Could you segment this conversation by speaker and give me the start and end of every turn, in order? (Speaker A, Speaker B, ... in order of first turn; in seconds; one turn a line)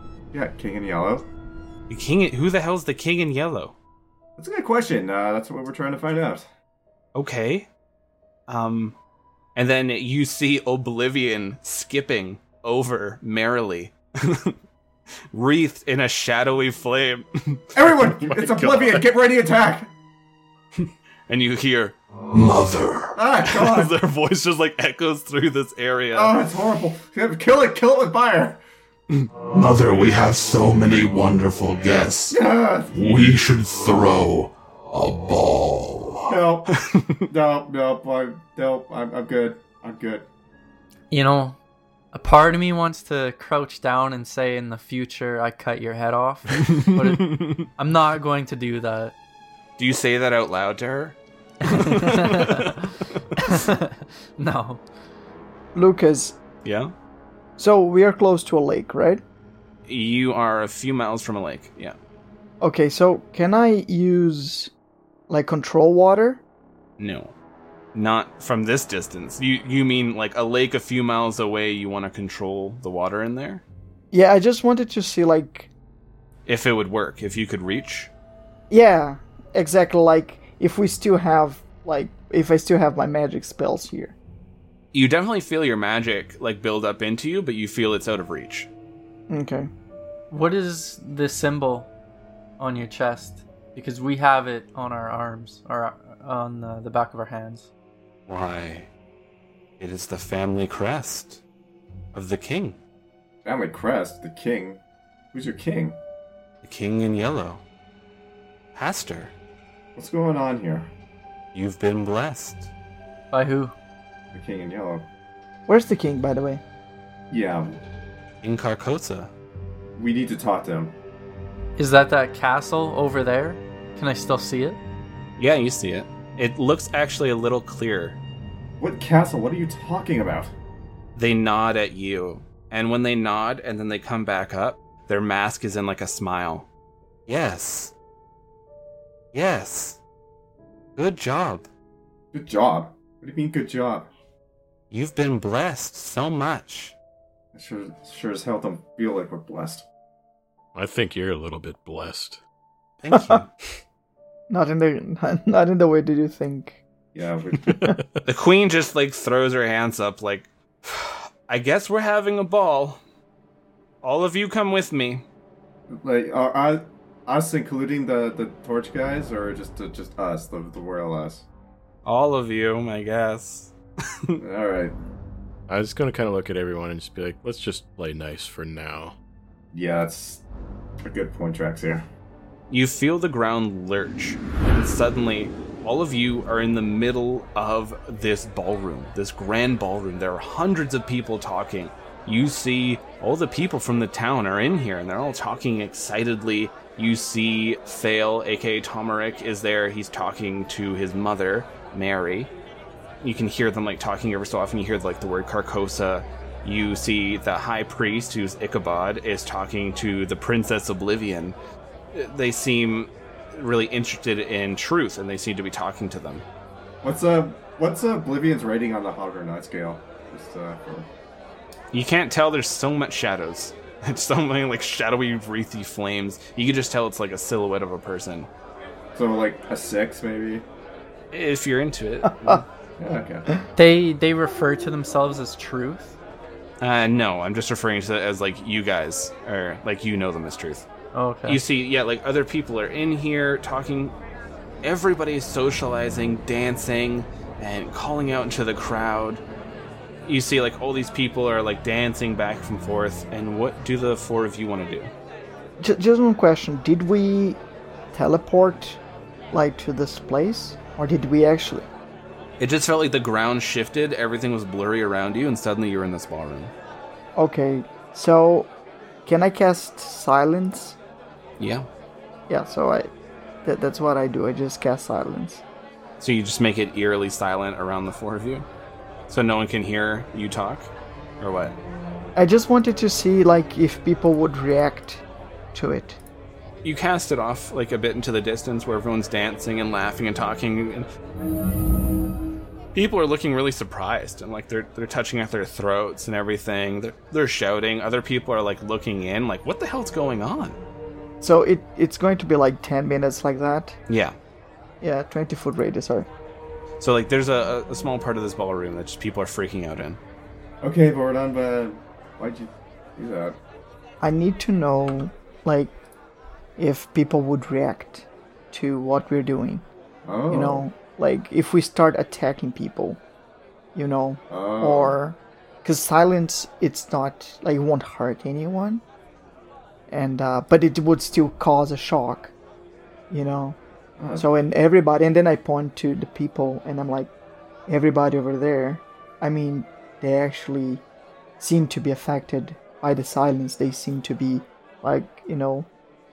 Speaker A: 0.3-1.3
Speaker B: 1.9-3.8
Speaker A: 4.4-6.5
Speaker B: 7.1-7.7
Speaker B: 8.5-9.0
Speaker B: 9.6-14.6
Speaker B: 15.3-17.6
Speaker A: 17.7-19.9
Speaker C: 17.9-19.1
Speaker B: 21.3-21.9
Speaker D: 22.3-23.2
Speaker A: 23.1-23.9
Speaker B: 23.4-26.3
Speaker A: 26.1-28.6
Speaker D: 29.5-36.4
Speaker A: 32.3-33.3
Speaker A: 36.3-36.7
Speaker A: 37.3-40.3
Speaker E: 41.1-41.6
Speaker E: 42.1-49.1
Speaker B: 49.8-53.4
Speaker E: 51.7-52.8
Speaker E: 53.5-54.8
Speaker F: 55.7-56.4
Speaker B: 56.6-56.9
Speaker F: 57.6-59.2
Speaker B: 59.9-62.0
Speaker F: 62.6-64.7
Speaker F: 65.3-66.4
Speaker B: 67.0-67.3
Speaker B: 67.9-73.6
Speaker F: 74.1-75.7
Speaker B: 76.5-78.1
Speaker F: 78.7-84.2
Speaker B: 84.9-88.7
Speaker F: 89.3-89.7
Speaker E: 90.3-91.9
Speaker E: 92.6-97.7
Speaker G: 98.3-98.9
Speaker G: 99.8-101.4
Speaker G: 102.1-102.8
Speaker A: 103.4-104.8
Speaker A: 105.3-106.0
Speaker G: 106.6-107.6
Speaker G: 108.7-109.3
Speaker A: 110.0-110.9
Speaker G: 111.5-112.7
Speaker E: 113.3-113.7
Speaker A: 114.3-115.1
Speaker F: 115.7-116.6
Speaker A: 117.3-117.8
Speaker G: 118.4-119.3
Speaker A: 120.0-121.0
Speaker E: 121.8-124.8
Speaker B: 125.4-128.2
Speaker A: 128.8-130.5
Speaker B: 131.2-136.7
Speaker G: 137.3-137.9
Speaker G: 139.3-140.0
Speaker G: 140.9-141.7
Speaker A: 142.3-144.1
Speaker G: 144.9-146.9
Speaker A: 147.5-149.8
Speaker C: 150.7-152.4
Speaker G: 153.0-153.5
Speaker F: 153.1-153.4
Speaker F: 154.5-156.8
Speaker A: 157.1-157.8
Speaker B: 158.2-163.0
Speaker B: 164.0-165.2
Speaker A: 165.9-171.4
Speaker B: 172.0-173.7
Speaker A: 174.4-174.9
Speaker C: 175.7-179.2
Speaker A: 179.7-180.4
Speaker A: 181.0-182.1
Speaker B: 182.7-202.5
Speaker B: 203.2-211.6
Speaker B: 212.1-216.4
Speaker A: 217.0-221.1
Speaker B: 221.9-228.5
Speaker A: 229.1-230.6
Speaker B: 231.3-232.6
Speaker A: 233.0-233.5
Speaker E: 233.7-236.2
Speaker B: 236.8-240.9
Speaker E: 241.1-241.6
Speaker B: 241.4-244.1
Speaker B: 244.8-249.4
Speaker B: 250.2-255.1
Speaker F: 255.8-257.6
Speaker F: 258.1-261.9
Speaker B: 262.6-266.7
Speaker F: 267.4-268.7
Speaker F: 269.2-271.0
Speaker B: 271.6-271.9
Speaker F: 272.5-273.1
Speaker F: 273.6-275.6
Speaker B: 276.2-278.6
Speaker B: 279.3-280.9
Speaker B: 281.4-281.8
Speaker F: 282.4-286.2
Speaker B: 286.8-291.1
Speaker B: 292.9-300.8
Speaker F: 301.4-304.0
Speaker B: 304.1-304.4
Speaker F: 305.0-306.3
Speaker B: 307.0-310.2
Speaker A: 310.8-313.6
Speaker F: 314.2-315.9
Speaker F: 316.8-319.9
Speaker A: 320.2-320.9
Speaker F: 320.5-323.2
Speaker F: 323.9-329.0
Speaker A: 324.5-325.2
Speaker F: 330.1-332.5
Speaker F: 333.3-333.8
Speaker A: 334.2-334.5
Speaker F: 334.4-337.3
Speaker F: 337.9-341.0
Speaker F: 341.6-345.9